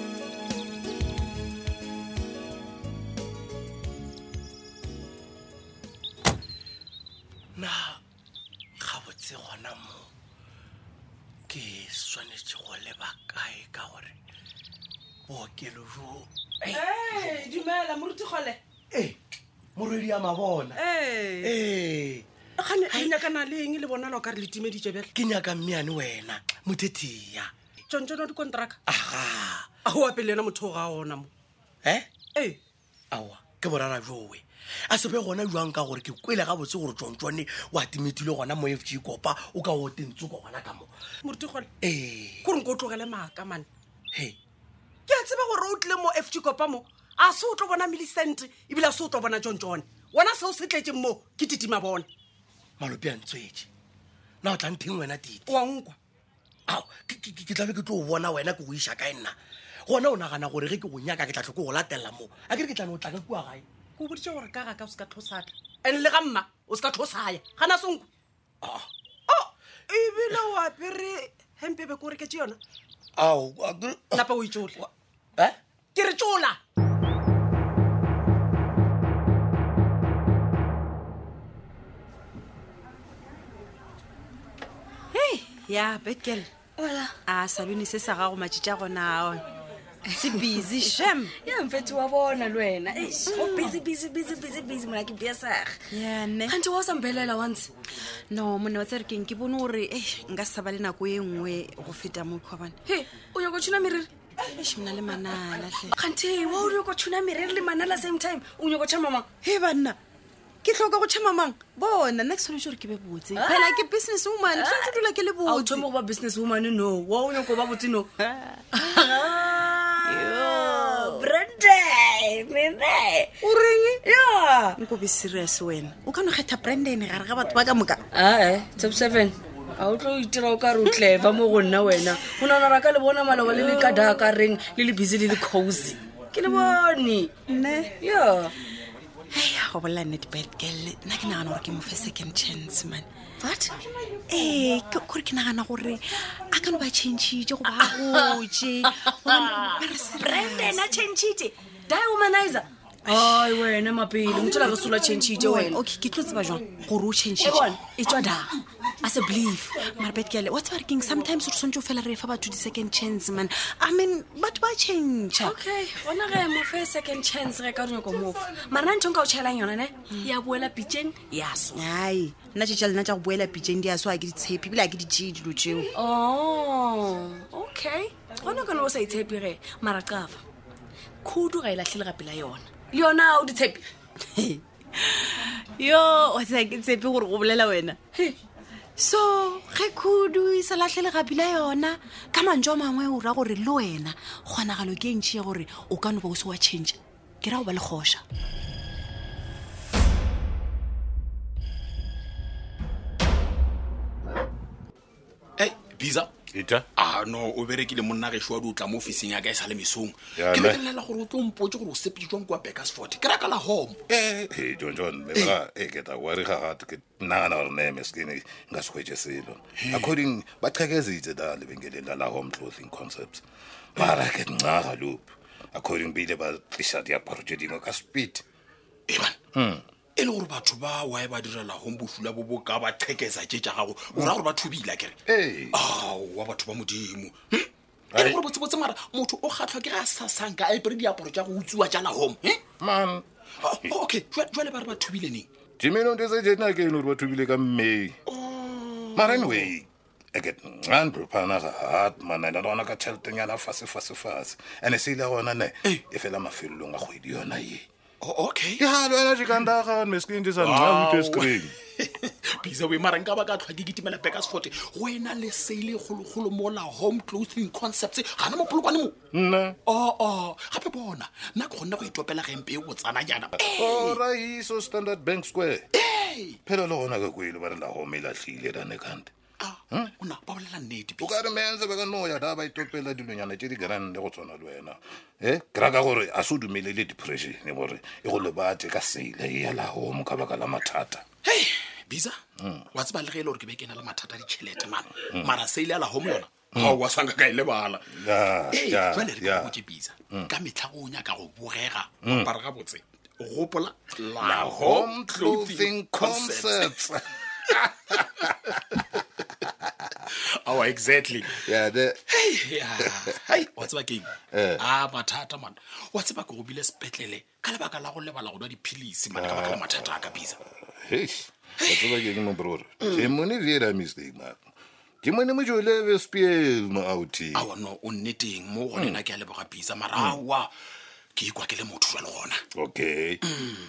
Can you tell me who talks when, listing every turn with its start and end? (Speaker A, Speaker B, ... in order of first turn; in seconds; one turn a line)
Speaker A: 7.6-8.0
Speaker A: 8.8-10.1
Speaker A: 11.5-14.1
Speaker A: 15.3-17.5
Speaker B: 16.7-18.6
Speaker A: 18.9-19.2
Speaker A: 19.8-20.8
Speaker B: 20.8-21.5
Speaker A: 21.4-22.3
Speaker B: 22.6-25.1
Speaker A: 22.9-23.2
Speaker A: 25.1-27.5
Speaker B: 27.9-28.8
Speaker A: 28.9-29.8
Speaker B: 29.9-31.3
Speaker A: 31.8-32.1
Speaker A: 33.1-40.9
Speaker B: 41.2-41.7
Speaker A: 41.8-42.5
Speaker B: 42.4-43.7
Speaker A: 44.1-44.4
Speaker B: 45.1-52.1
Speaker A: 52.8-53.7
Speaker A: 54.4-55.5
Speaker B: 55.5-56.0
Speaker A: 56.7-63.7
Speaker B: 64.0-68.1
Speaker A: 68.6-68.9
Speaker B: 69.3-72.6
Speaker A: 73.2-74.3
Speaker B: 74.1-74.8
Speaker B: 76.0-76.6
Speaker C: 85.1-86.5
Speaker D: 86.8-87.2
Speaker C: 87.2-89.4
Speaker C: 90.1-91.3
Speaker D: 90.2-95.9
Speaker C: 93.3-94.0
Speaker C: 94.5-95.1
Speaker C: 95.9-96.6
Speaker D: 96.5-97.7
Speaker C: 98.3-102.8
Speaker D: 102.8-104.1
Speaker C: 104.5-106.0
Speaker D: 105.9-109.4
Speaker C: 109.4-110.0
Speaker C: 110.6-115.9
Speaker D: 113.3-113.9
Speaker D: 114.5-118.1
Speaker C: 118.2-123.4
Speaker D: 118.8-121.5
Speaker B: 123.5-124.0
Speaker D: 124.0-124.8
Speaker C: 124.8-128.0
Speaker D: 128.1-138.6
Speaker C: 133.6-134.1
Speaker C: 137.5-137.9
Speaker C: 139.3-143.1
Speaker D: 143.4-143.8
Speaker C: 144.3-151.6
Speaker D: 151.8-155.8
Speaker C: 153.1-153.4
Speaker C: 154.3-158.5
Speaker D: 157.4-158.5
Speaker C: 159.0-165.6
Speaker D: 159.1-159.8
Speaker D: 165.4-171.3
Speaker C: 171.0-175.9
Speaker D: 175.9-180.3
Speaker C: 177.7-178.0
Speaker C: 179.7-180.4
Speaker C: 181.2-182.7
Speaker D: 182.9-183.9
Speaker C: 184.4-188.0
Speaker C: 189.0-198.2
Speaker E: 205.6-206.3
Speaker F: 206.5-206.9
Speaker E: 207.0-214.0
Speaker F: 210.4-210.8
Speaker F: 214.1-223.4
Speaker E: 219.8-220.2
Speaker F: 224.0-228.4
Speaker E: 229.1-229.4
Speaker F: 229.5-229.8
Speaker E: 230.2-235.2
Speaker F: 235.3-235.8
Speaker E: 235.7-242.7
Speaker F: 238.1-238.4
Speaker F: 242.8-243.3
Speaker E: 243.6-245.5
Speaker F: 245.8-248.2
Speaker E: 248.3-249.7
Speaker F: 249.2-257.9
Speaker E: 258.2-258.8
Speaker F: 258.8-261.7
Speaker E: 260.6-269.3
Speaker F: 269.3-269.8
Speaker E: 269.9-274.2
Speaker F: 273.6-275.9
Speaker E: 275.9-276.6
Speaker F: 276.6-279.3
Speaker E: 279.6-281.4
Speaker F: 281.2-291.2
Speaker E: 291.4-292.4
Speaker E: 292.9-307.0
Speaker F: 296.7-297.0
Speaker F: 298.2-299.8
Speaker F: 302.2-302.5
Speaker F: 304.4-308.5
Speaker E: 308.1-308.8
Speaker E: 310.3-311.6
Speaker F: 311.5-312.2
Speaker E: 312.3-320.6
Speaker F: 313.0-313.3
Speaker F: 314.5-314.8
Speaker F: 319.3-320.3
Speaker F: 321.0-324.6
Speaker E: 321.8-322.2
Speaker F: 325.2-327.7
Speaker E: 327.6-330.7
Speaker F: 328.9-329.2
Speaker F: 330.1-330.4
Speaker E: 331.4-332.6
Speaker F: 332.8-333.7